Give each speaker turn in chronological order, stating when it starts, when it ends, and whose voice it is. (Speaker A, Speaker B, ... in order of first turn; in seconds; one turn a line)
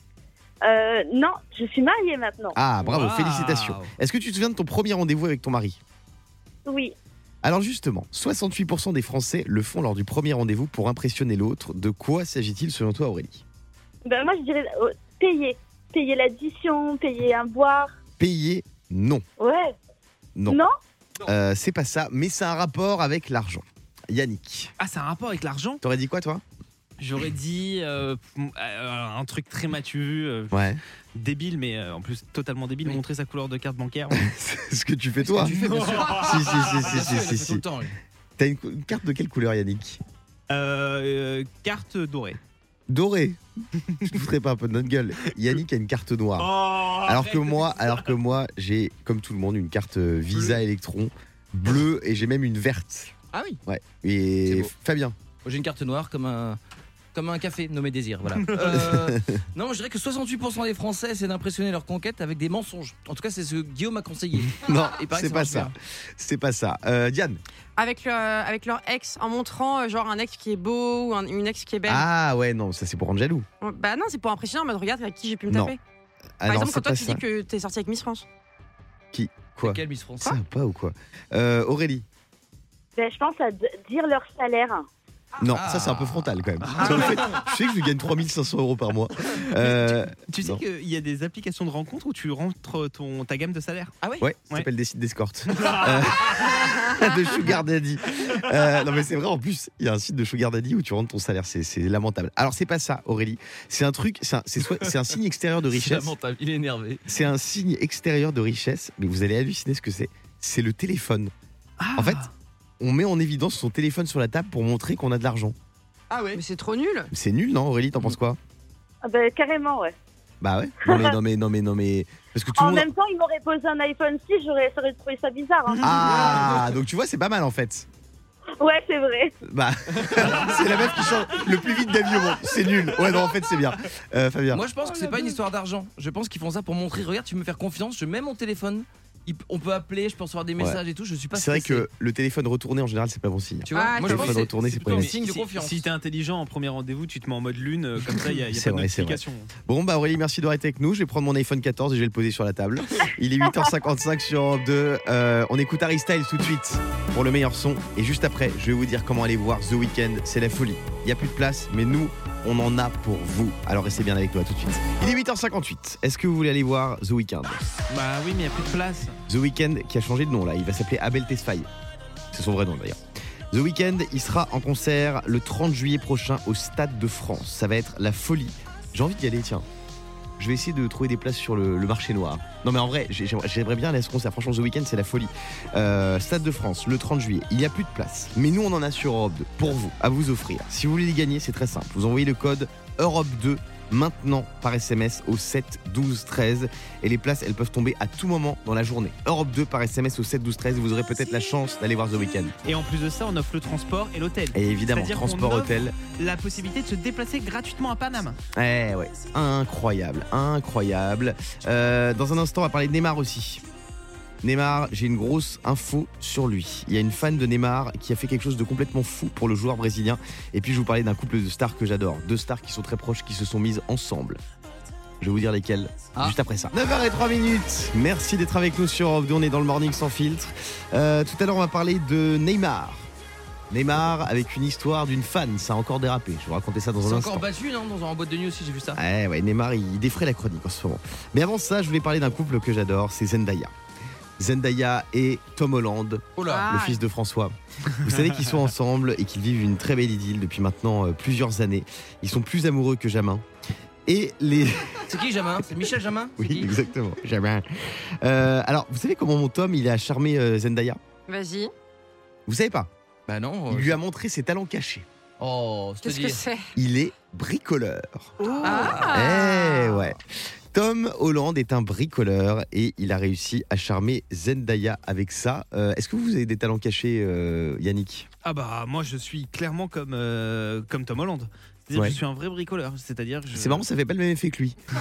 Speaker A: 0.6-2.5
Speaker B: 2.5-5.8
Speaker C: 2.8-3.9
Speaker A: 6.7-6.9
Speaker B: 7.4-13.4
Speaker A: 14.0-17.9
Speaker B: 18.2-19.2
Speaker A: 19.4-19.7
Speaker B: 20.4-20.6
Speaker A: 20.5-20.7
Speaker B: 21.2-24.7
Speaker C: 24.8-25.8
Speaker B: 25.8-26.4
Speaker C: 27.0-30.6
Speaker B: 30.5-30.8
Speaker C: 31.1-34.2
Speaker B: 34.1-37.6
Speaker D: 35.2-38.0
Speaker C: 35.5-37.0
Speaker B: 38.4-40.0
Speaker C: 40.5-42.4
Speaker B: 42.9-43.4
Speaker B: 44.0-53.1
Speaker C: 46.4-48.1
Speaker D: 53.3-53.6
Speaker B: 53.6-55.1
Speaker D: 54.5-54.7
Speaker D: 55.4-56.6
Speaker D: 57.1-65.7
Speaker C: 58.4-58.8
Speaker B: 58.7-59.4
Speaker B: 64.5-67.4
Speaker E: 67.8-72.1
Speaker B: 71.8-73.5
Speaker E: 73.6-75.8
Speaker B: 75.5-75.8
Speaker B: 76.4-77.2
Speaker E: 76.5-78.2
Speaker B: 79.1-82.0
Speaker D: 79.6-80.4
Speaker A: 83.0-84.8
Speaker B: 85.4-90.6
Speaker D: 85.5-87.4
Speaker C: 86.6-87.4
Speaker C: 89.5-93.9
Speaker B: 94.2-106.1
Speaker C: 95.5-96.6
Speaker D: 105.7-107.0
Speaker B: 107.1-111.3
Speaker C: 111.8-112.3
Speaker B: 112.0-112.2
Speaker B: 112.8-115.5
Speaker D: 116.1-116.4
Speaker E: 116.3-117.1
Speaker B: 117.1-118.4
Speaker A: 119.0-120.0
Speaker B: 120.4-122.9
Speaker A: 120.9-121.1
Speaker A: 122.5-125.9
Speaker C: 125.7-126.5
Speaker B: 125.8-127.9
Speaker D: 126.1-126.5
Speaker A: 128.6-129.3
Speaker B: 129.4-134.6
Speaker D: 130.2-130.6
Speaker D: 134.5-141.8
Speaker E: 134.8-135.3
Speaker B: 141.3-145.2
Speaker D: 143.7-145.9
Speaker E: 143.7-144.5
Speaker C: 144.9-149.5
Speaker B: 148.5-167.6
Speaker C: 167.9-169.2
Speaker B: 169.3-171.7
Speaker B: 172.3-179.7
Speaker B: 180.4-202.5
Speaker C: 202.6-208.4
Speaker B: 204.5-205.9
Speaker B: 208.5-213.6
Speaker B: 214.4-224.4
Speaker B: 225.2-233.1
Speaker B: 233.7-237.5
Speaker D: 237.0-239.0
Speaker B: 238.9-243.7
Speaker B: 244.4-253.4
Speaker D: 246.4-246.7
Speaker E: 246.4-247.0
Speaker C: 247.9-248.6
Speaker B: 254.1-255.1
Speaker D: 255.1-256.8
Speaker B: 256.4-261.0
Speaker E: 261.3-261.7
Speaker B: 262.5-262.9
Speaker D: 263.3-264.0
Speaker B: 263.7-265.1
Speaker D: 265.4-266.4
Speaker E: 266.0-266.7
Speaker B: 266.7-278.3
Speaker E: 268.4-270.1
Speaker D: 268.6-269.2
Speaker C: 278.4-283.9
Speaker B: 281.9-282.2
Speaker B: 283.5-284.8